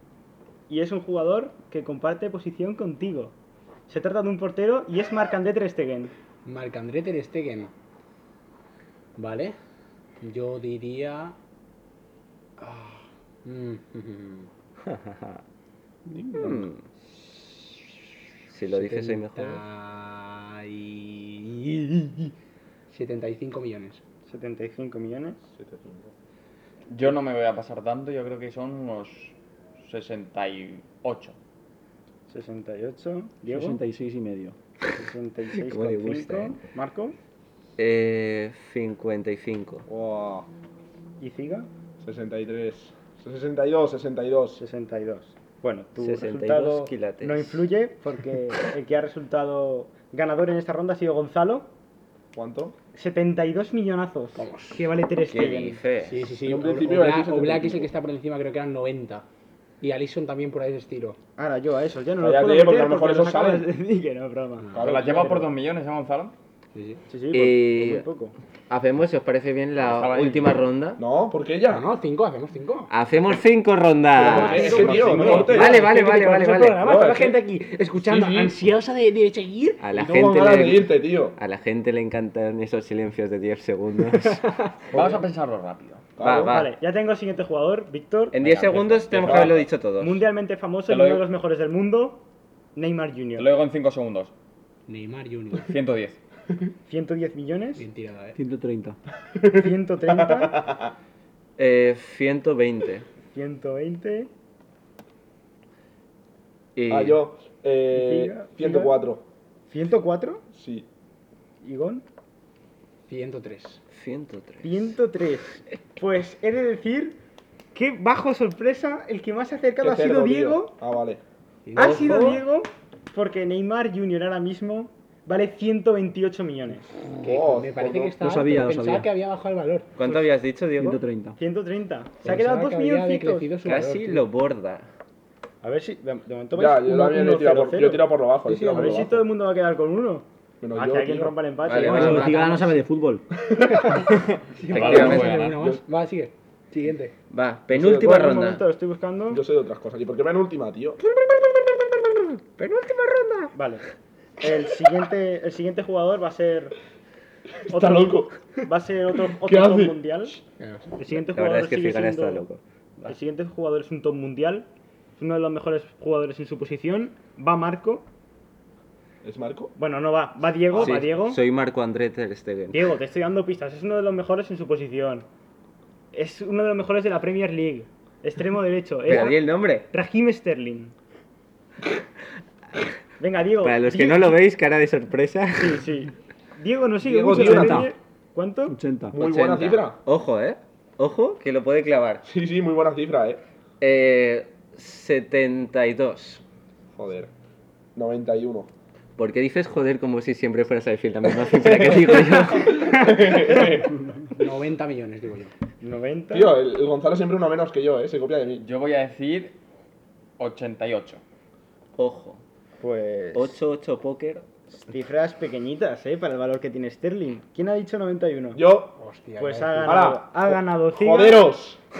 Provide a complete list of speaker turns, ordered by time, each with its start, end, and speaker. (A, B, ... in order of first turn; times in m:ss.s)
0:00.7-0:03.3 A
0:03.9-0:06.1 A
0:06.4-0:07.7 B
0:09.2-0:09.6 B
0:10.2-0:11.4 B
0:12.6-0:14.5 B
0:14.9-0:15.3 C
0:16.1-0:16.6 D
0:16.4-0:16.8 C
0:18.5-0:19.6 C
0:18.7-0:22.3 B
0:22.9-0:24.0 B
0:24.3-0:25.4 A
0:25.6-0:26.1 D
0:26.9-0:31.4 E
0:32.3-0:33.8 A
0:33.5-0:34.6 F
0:34.9-0:37.2 A
0:35.5-0:36.6 C
0:37.8-0:39.9 C
0:39.9-0:40.5 D
0:41.2-0:41.7 A
0:42.0-0:44.6 D
0:44.6-0:51.7 A
0:46.0-0:47.6 C
0:52.3-0:52.8 D
0:53.0-0:55.8 A
0:54.4-0:54.9 B
0:55.3-0:56.3 C
0:56.0-0:59.3 B
0:56.4-0:57.9 D
0:59.8-1:01.2 B
1:01.4-1:05.5 A
1:02.2-1:03.7 D
1:04.7-1:05.4 D
1:04.8-1:06.3 E
1:06.7-1:07.0 B
1:07.1-1:08.3 A
1:07.3-1:08.0 C
1:08.7-1:11.0 C
1:09.8-1:10.6 E
1:11.0-1:11.9 D
1:11.7-1:12.9 B
1:12.9-1:16.9 C
1:14.2-1:15.9 D
1:14.2-1:19.8 B
1:14.3-1:15.7 A
1:16.8-1:17.4 D
1:18.0-1:18.6 D
1:19.8-1:24.4 C
1:19.9-1:21.4 D
1:24.9-1:26.0 E
1:24.9-1:25.2 D
1:26.2-1:26.6 D
1:26.2-1:26.7 C
1:26.4-1:28.4 A
1:28.3-1:30.2 C
1:28.4-1:29.6 E
1:29.2-1:29.6 D
1:30.0-1:32.2 A
1:30.9-1:31.2 E
1:32.8-1:33.5 A
1:33.4-1:34.3 E
1:34.9-1:35.7 B
1:35.6-1:36.2 E
1:36.9-1:37.8 A
1:37.8-1:38.4 B
1:38.4-1:39.0 F
1:39.4-1:40.8 D
1:39.5-1:40.6 A
1:41.6-1:43.1 C
1:43.3-1:44.3 A
1:46.8-1:47.2 C
1:46.9-1:49.2 D
1:47.9-1:49.0 A
1:49.7-1:50.4 A
1:50.5-1:50.9 D
1:51.6-1:52.0 A
1:53.1-1:53.8 B
1:53.9-1:54.9 C
1:54.6-1:57.2 A
1:57.8-2:00.7 A
1:59.8-2:01.2 D
2:01.7-2:02.4 B
2:01.8-2:07.1 A
2:07.2-2:10.0 B
2:07.2-2:08.2 D
2:08.2-2:09.1 F
2:10.0-2:11.0 C
2:10.8-2:11.4 F
2:11.4-2:13.5 A
2:12.2-2:14.2 B
2:13.6-2:14.9 C
2:15.6-2:22.8 A
2:16.6-2:19.3 D
2:18.5-2:19.1 B
2:20.6-2:21.4 D
2:21.7-2:22.4 C
2:21.7-2:23.2 F
2:23.4-2:23.9 D
2:24.6-2:27.1 B
2:24.7-2:25.6 E
2:24.7-2:25.4 C
2:24.9-2:25.8 D
2:27.3-2:28.6 C
2:27.7-2:28.2 D
2:27.9-2:29.4 A
2:29.3-2:31.0 D
2:31.2-2:31.9 C
2:32.6-2:33.5 C
2:33.5-2:33.8 A
2:34.4-2:36.8 A
2:37.7-2:38.5 D
2:37.7-2:40.4 A
2:39.4-2:40.0 D
2:40.6-2:40.9 B
2:41.0-2:42.5 A
2:41.2-2:42.6 C
2:43.0-2:44.7 A
2:45.2-2:48.1 A
2:49.2-2:49.7 D
2:49.8-2:51.4 A
2:50.8-2:52.9 C
2:52.7-2:55.3 A
2:56.1-3:00.9 A
2:59.1-2:59.9 C
3:03.2-3:04.4 A
3:03.6-3:05.8 C
3:05.6-3:08.8 A
3:07.0-3:07.9 D
3:07.4-3:07.9 F
3:08.7-3:09.2 F
3:09.1-3:10.0 D
3:09.2-3:12.2 C
3:12.3-3:13.4 D
3:13.8-3:16.4 C
3:17.0-3:17.3 D
3:18.0-3:18.7 D
3:19.2-3:23.0 C
3:21.6-3:24.0 D
3:24.4-3:25.5 B
3:25.8-3:26.5 A
3:26.3-3:28.6 D
3:28.6-3:29.5 E
3:30.4-3:31.2 E
3:32.0-3:32.4 C
3:32.8-3:33.6 A
3:33.3-3:34.5 C
3:34.8-3:38.6 A
3:38.6-3:39.0 D
3:39.0-3:40.0 B
3:39.4-3:41.5 A
3:39.8-3:41.8 D